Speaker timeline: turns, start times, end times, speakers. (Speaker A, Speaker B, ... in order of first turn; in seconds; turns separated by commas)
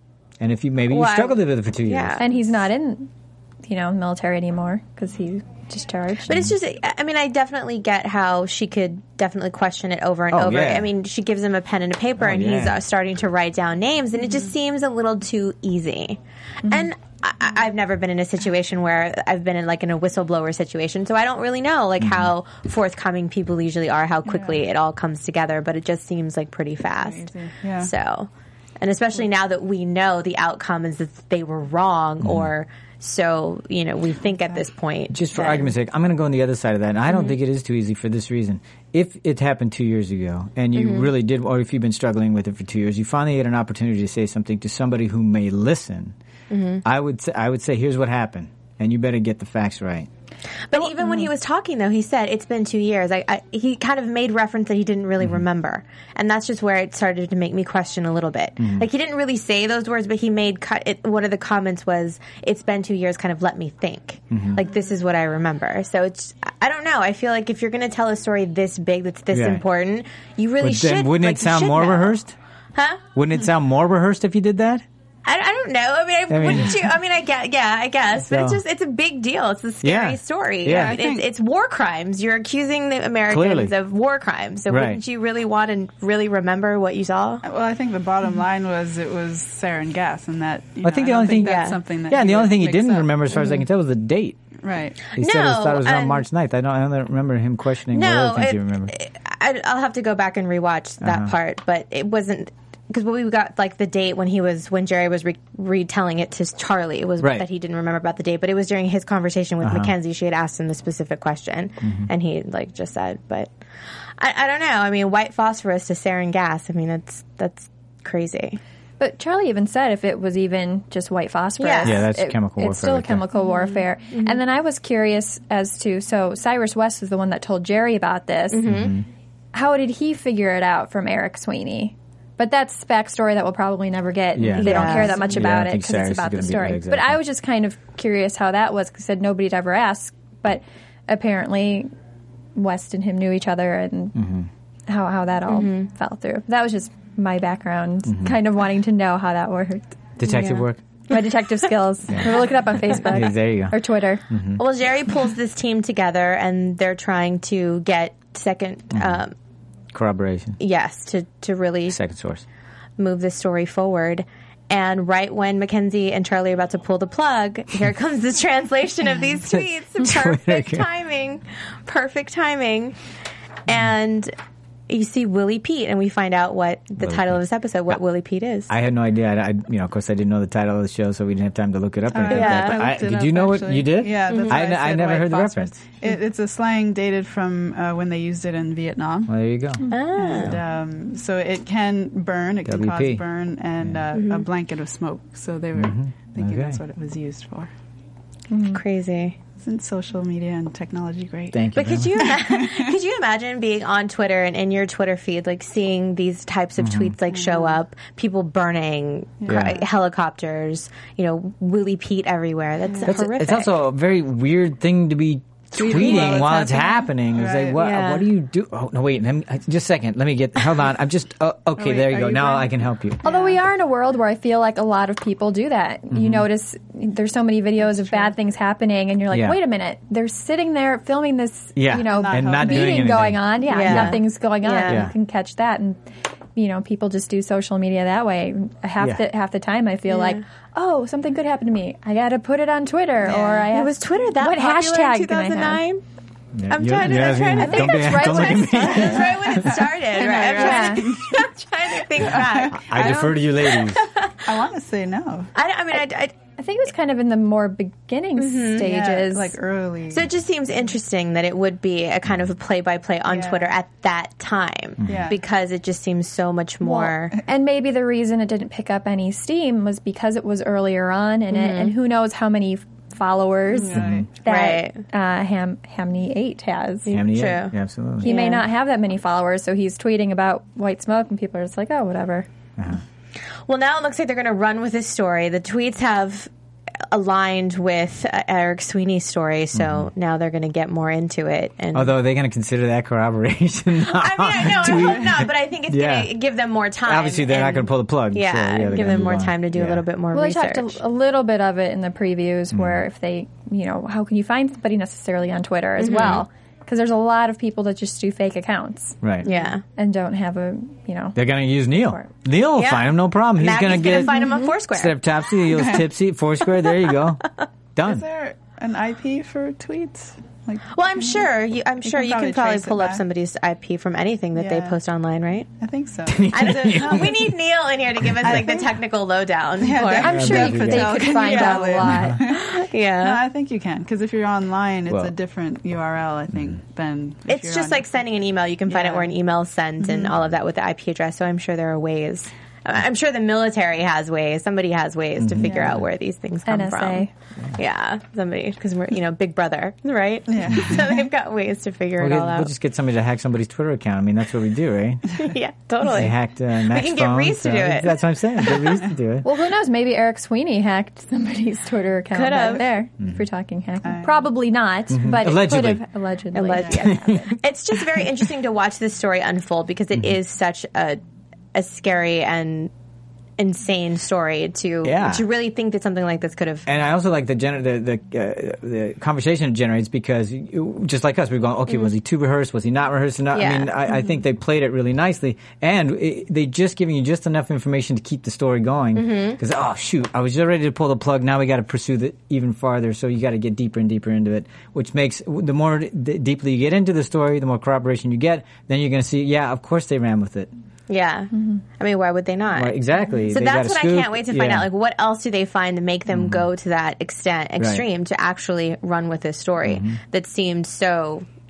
Speaker A: 0.4-2.2, Speaker B: 0.9-2.2, Speaker C: 2.2-3.1, Speaker C: 3.6-6.5, Speaker B: 6.3-28.3, Speaker A: 10.3-10.9, Speaker A: 12.2-12.8, Speaker A: 22.0-22.3, Speaker D: 27.0-27.9, Speaker B: 28.8-35.7, Speaker A: 32.2-32.5, Speaker A: 35.1-46.1, Speaker B: 40.8-41.1, Speaker B: 46.5-46.8, Speaker A: 46.8-50.1, Speaker B: 50.7-72.2, Speaker A: 58.6-58.9, Speaker A: 64.3-64.6, Speaker A: 69.3-69.6, Speaker A: 70.6-72.3, Speaker B: 72.7-73.0, Speaker A: 73.1-74.8, Speaker B: 75.2-87.4, Speaker A: 76.3-76.8, Speaker A: 78.2-78.6, Speaker A: 79.8-81.0, Speaker D: 80.7-81.3, Speaker A: 83.3-83.7, Speaker A: 84.7-85.0, Speaker D: 87.4-93.1, Speaker A: 90.8-94.4, Speaker B: 91.4-91.8, Speaker D: 94.6-95.0, Speaker A: 95.1-98.9, Speaker B: 95.2-96.2, Speaker B: 97.9-113.5, Speaker A: 101.0-101.3, Speaker A: 107.2-107.5, Speaker A: 109.6-109.9, Speaker A: 111.8-112.1, Speaker B: 114.2-118.6, Speaker C: 119.0-128.7, Speaker B: 121.6-122.0, Speaker A: 121.8-123.2, Speaker D: 123.4-123.8, Speaker B: 124.1-124.4, Speaker B: 128.5-128.9, Speaker A: 128.7-129.0, Speaker C: 129.5-141.9, Speaker A: 134.3-137.2, Speaker B: 134.5-135.4, Speaker C: 142.5-144.2, Speaker A: 144.1-144.5, Speaker C: 144.9-154.2, Speaker B: 145.5-145.8, Speaker A: 148.1-148.4, Speaker A: 150.2-150.8, Speaker A: 152.1-154.6, Speaker B: 154.6-159.3, Speaker A: 158.9-159.2, Speaker A: 159.9-160.6, Speaker B: 160.6-162.0, Speaker A: 161.9-162.4, Speaker B: 163.0-173.0, Speaker A: 169.5-170.9, Speaker B: 173.7-174.3, Speaker B: 174.9-178.7, Speaker A: 177.0-178.0, Speaker A: 178.7-185.7, Speaker B: 182.1-183.0, Speaker D: 182.2-189.3, Speaker B: 184.3-184.7, Speaker A: 189.3-189.8, Speaker B: 189.9-190.5, Speaker D: 190.2-197.7, Speaker A: 192.6-193.2, Speaker A: 193.8-194.1, Speaker B: 194.1-194.4, Speaker A: 195.8-196.8, Speaker C: 198.5-198.8, Speaker B: 198.7-199.4, Speaker D: 199.6-202.9, Speaker A: 201.5-202.3, Speaker B: 201.7-213.7, Speaker A: 206.8-207.2, Speaker D: 207.3-207.8, Speaker D: 209.4-209.8, Speaker A: 209.5-209.8, Speaker D: 212.8-213.1, Speaker A: 213.1-223.2, Speaker D: 215.7-217.8, Speaker B: 215.9-216.4, Speaker B: 217.8-218.3, Speaker D: 221.8-222.7, Speaker D: 223.2-223.6, Speaker C: 223.2-236.0, Speaker A: 226.1-226.4, Speaker A: 229.3-229.6, Speaker A: 231.8-234.2, Speaker D: 232.0-233.1, Speaker B: 233.7-235.0, Speaker A: 234.9-235.1, Speaker C: 236.6-245.8, Speaker B: 240.1-240.4, Speaker D: 243.3-243.7, Speaker B: 243.7-246.0, Speaker A: 246.5-249.8, Speaker B: 246.7-254.4, Speaker C: 247.6-249.2, Speaker D: 248.9-251.4, Speaker C: 250.5-251.1, Speaker D: 252.3-253.2, Speaker A: 252.3-254.0, Speaker D: 254.4-255.5, Speaker B: 255.5-256.3, Speaker C: 256.6-259.5, Speaker B: 258.4-258.9, Speaker D: 258.8-260.3, Speaker B: 260.1-267.4, Speaker D: 263.3-263.7, Speaker A: 265.0-265.3, Speaker D: 265.1-265.4, Speaker C: 266.8-277.1, Speaker B: 271.5-271.9, Speaker D: 273.7-274.3, Speaker A: 273.9-274.3, Speaker B: 274.4-275.0, Speaker B: 277.1-278.6, Speaker A: 277.1-278.3, Speaker C: 278.2-282.5, Speaker B: 283.7-286.5, Speaker B: 287.1-292.1, Speaker A: 289.7-290.1, Speaker A: 291.9-296.3, Speaker B: 293.9-300.9, Speaker A: 297.1-300.0, Speaker C: 300.3-309.2, Speaker A: 302.7-303.0, Speaker B: 306.0-306.4, Speaker A: 306.2-306.4, Speaker A: 309.2-309.5, Speaker B: 309.4-309.8, Speaker C: 309.9-312.3, Speaker A: 311.3-318.3, Speaker B: 312.8-315.1, Speaker C: 314.2-314.7, Speaker D: 315.7-316.0, Speaker D: 318.0-321.4, Speaker B: 320.9-325.7, Speaker D: 322.0-323.2, Speaker D: 324.5-325.0, Speaker D: 325.8-327.3, Speaker A: 326.2-327.5, Speaker B: 326.5-330.6, Speaker A: 328.3-328.6, Speaker D: 328.4-328.9, Speaker D: 329.8-338.0, Speaker C: 330.0-332.4, Speaker A: 330.2-331.2, Speaker B: 331.2-333.4, Speaker A: 332.0-332.4, Speaker A: 335.1-335.3, Speaker B: 337.5-352.7, Speaker D: 338.9-339.3, Speaker D: 340.0-340.3, Speaker A: 345.4-346.1, Speaker D: 345.6-346.0, Speaker C: 346.7-347.3, Speaker D: 350.5-351.1, Speaker A: 350.7-351.0, Speaker A: 352.2-355.4, Speaker B: 355.4-359.0, Speaker A: 356.0-359.5, Speaker C: 359.4-367.5, Speaker B: 362.3-362.9, Speaker D: 364.0-364.4, Speaker A: 365.1-366.0, Speaker B: 366.5-371.2, Speaker D: 366.8-367.0, Speaker A: 367.1-367.4, Speaker B: 371.7-372.9, Speaker B: 373.6-376.8, Speaker A: 375.0-375.5, Speaker A: 376.9-400.7, Speaker B: 383.5-383.9, Speaker B: 389.1-389.6, Speaker B: 401.1-403.0, Speaker A: 402.7-404.9, Speaker B: 403.5-411.4, Speaker A: 406.3-406.7, Speaker A: 407.8-408.0, Speaker A: 409.8-410.2